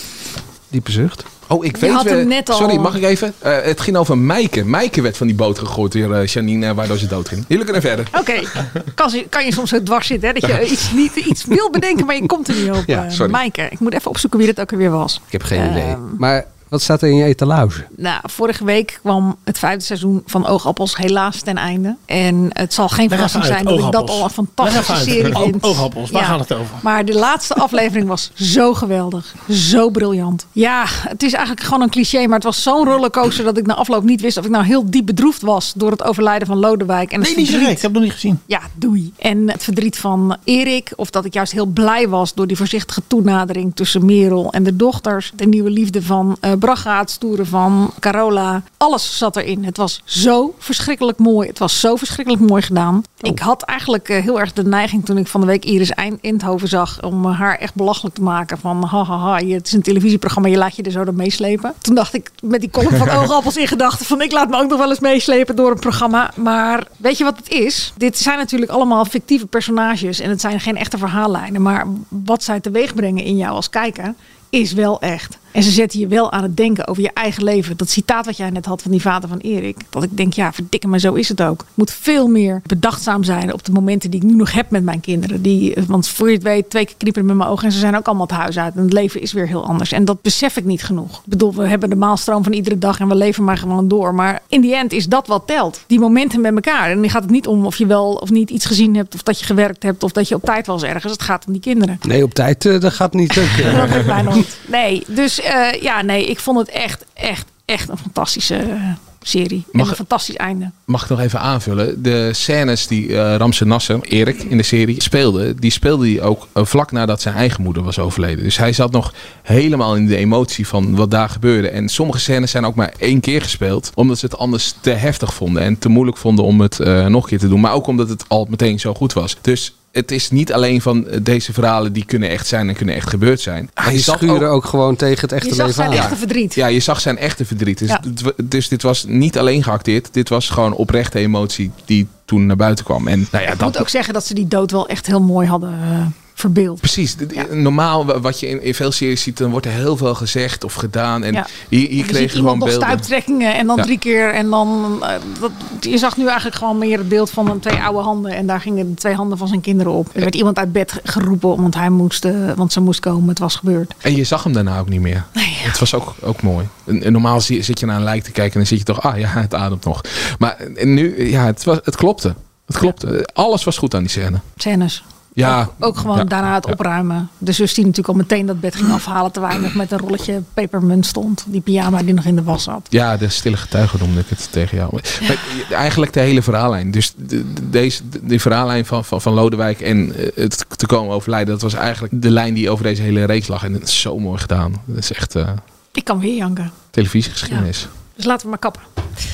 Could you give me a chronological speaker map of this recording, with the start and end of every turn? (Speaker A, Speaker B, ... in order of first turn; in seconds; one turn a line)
Speaker A: 0.7-1.2
Speaker B: 1.5-8.1
Speaker C: 1.7-3.0
Speaker C: 8.1-16.2
Speaker A: 12.8-13.1
Speaker A: 15.3-17.9
Speaker C: 17.9-37.8
Speaker D: 23.1-26.8
Speaker D: 37.2-38.4
Speaker C: 38.5-102.0
Speaker A: 102.0-104.4
Speaker C: 103.3-110.7
Speaker B: 109.7-110.0
Speaker B: 110.9-134.5
Speaker A: 133.8-136.1
Speaker C: 135.4-136.6
Speaker B: 135.9-143.8
Speaker C: 143.5-147.4
Speaker B: 146.8-153.0
Speaker C: 152.0-163.9
Speaker B: 164.0-174.4
Speaker C: 165.3-165.8
Speaker C: 174.6-182.8
Speaker B: 175.3-176.8
Speaker B: 182.9-195.6
Speaker C: 195.9-196.7
Speaker B: 196.9-197.9
Speaker C: 197.5-198.8